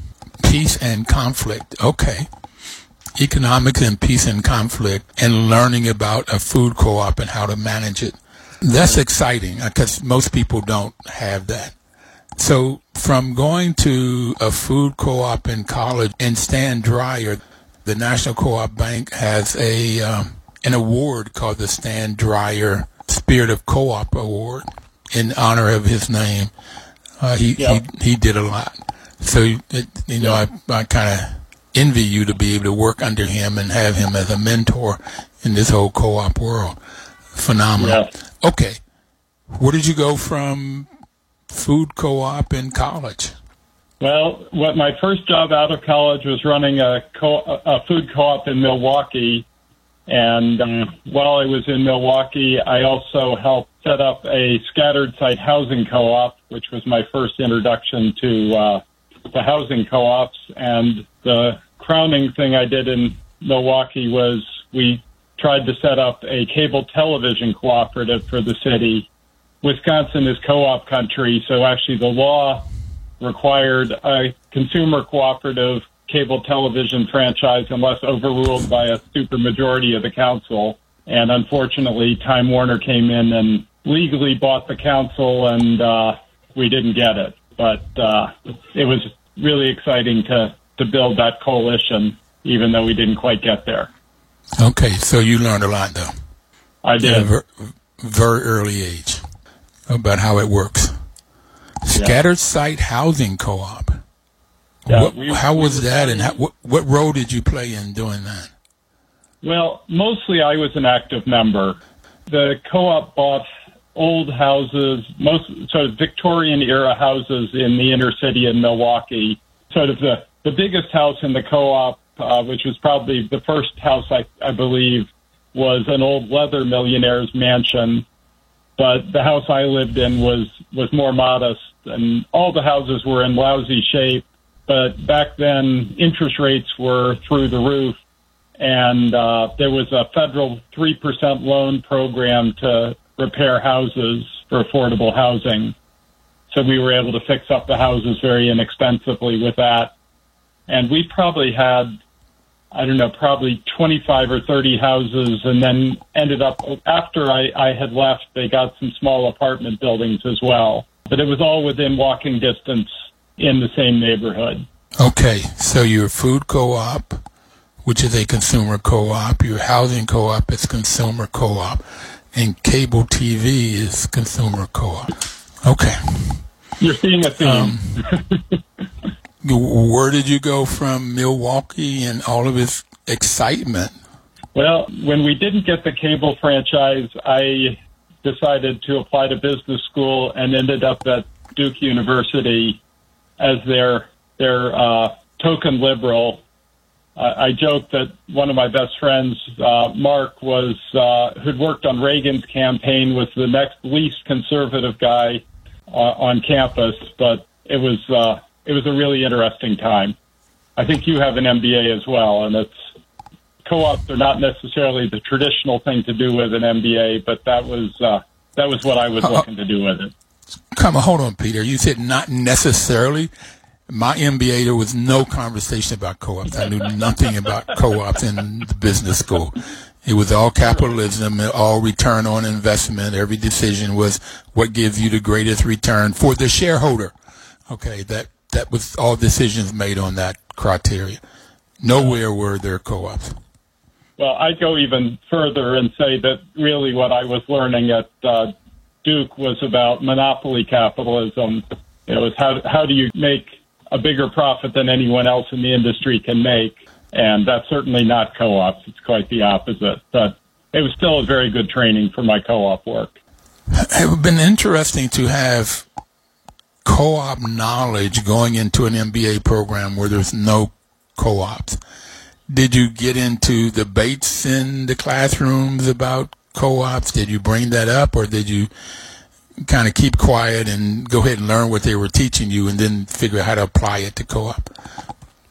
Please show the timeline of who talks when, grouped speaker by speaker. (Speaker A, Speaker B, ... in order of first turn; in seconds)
Speaker A: 0.4-2.3, 3.2-11.7, 12.4-26.5, 27.2-36.8, 37.3-38.8, 39.5-40.9, 41.5-43.4, 94.6-96.1, 97.0-99.2, 99.9-100.9, 101.8-104.0, 104.9-108.5, 165.0-167.2, 167.8-175.1, 175.6-176.4, 177.4-177.9, 179.4-183.9, 220.7-223.3, 223.9-237.1, 237.7-241.2, 241.8-243.4, 263.7-265.9, 266.8-271.8, 272.5-278.7, 279.6-284.7
Speaker B: 37.8-38.1, 44.0-49.5, 50.1-69.1, 69.6-72.7, 73.2-93.9, 96.8-97.3, 104.9-106.4, 109.4-128.1, 128.8-138.0, 138.6-145.8, 146.5-149.9, 150.7-152.0, 152.7-164.7, 176.8-178.4, 184.6-192.8, 193.4-196.4, 197.2-210.2, 210.8-212.8, 213.7-220.1, 244.2-248.5, 249.0-263.1